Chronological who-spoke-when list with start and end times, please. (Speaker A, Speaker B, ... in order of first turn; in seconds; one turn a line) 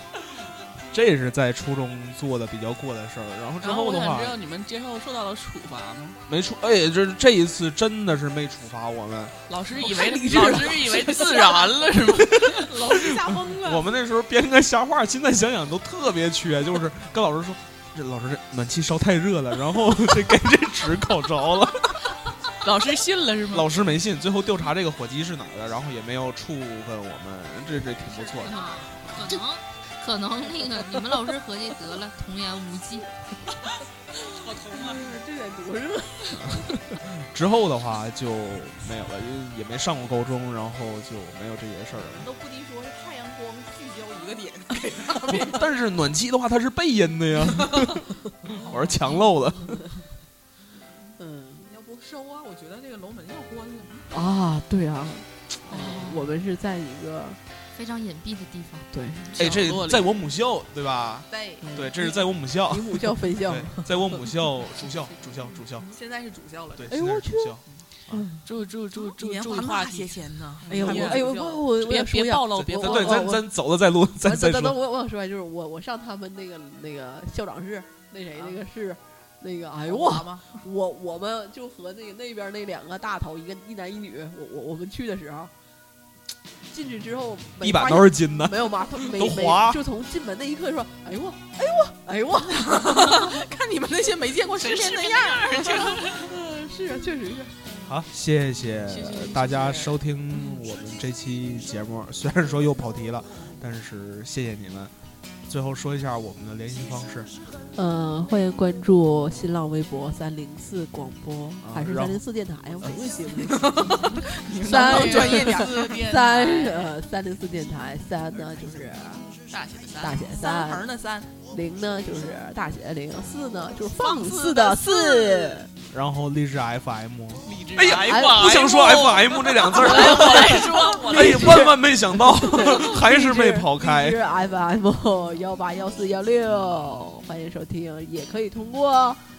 Speaker A: 0.9-4.4
Speaker B: 3.6-6.2
Speaker A: 6.3-9.3
Speaker B: 9.5-12.7
Speaker C: 9.8-11.7
Speaker A: 12.4-22.2
Speaker D: 12.6-13.9
Speaker B: 22.6-23.8
Speaker A: 23.5-28.5
Speaker E: 28.2-33.1
Speaker D: 28.5-28.8
Speaker B: 34.2-35.1
Speaker C: 34.9-36.4
Speaker A: 36.3-42.3
Speaker D: 42.0-45.9
Speaker A: 45.2-49.9
Speaker D: 48.7-49.0
Speaker C: 51.2-51.8
Speaker D: 51.7-54.1
Speaker C: 54.1-57.4
Speaker E: 55.7-56.3
Speaker E: 57.7-58.9
Speaker C: 58.9-59.3
Speaker B: 59.3-60.1
Speaker A: 59.4-65.9
Speaker D: 61.3-61.7
Speaker C: 61.6-64.2
Speaker D: 65.9-67.0
Speaker A: 66.8-68.3
Speaker C: 66.9-67.6
Speaker C: 68.1-68.4
Speaker B: 68.4-73.4
Speaker D: 69.0-71.6
Speaker C: 70.7-73.5
Speaker A: 72.7-74.8
Speaker C: 74.2-85.5
Speaker D: 79.9-80.6
Speaker C: 86.7-93.2
Speaker A: 87.6-89.8
Speaker D: 92.6-95.8
Speaker B: 94.5-96.4
Speaker C: 95.9-97.8
Speaker A: 97.8-104.9
Speaker B: 98.9-99.9
Speaker A: 105.5-107.3
Speaker C: 107.8-119.4
Speaker A: 111.6-112.2
Speaker D: 113.6-116.1
Speaker B: 114.0-116.9
Speaker B: 119.5-120.3
Speaker C: 120.0-120.9
Speaker D: 120.3-121.4
Speaker C: 121.5-125.7
Speaker D: 123.9-125.7
Speaker A: 125.8-134.2
Speaker B: 127.4-131.8
Speaker C: 128.0-128.5
Speaker C: 130.2-139.2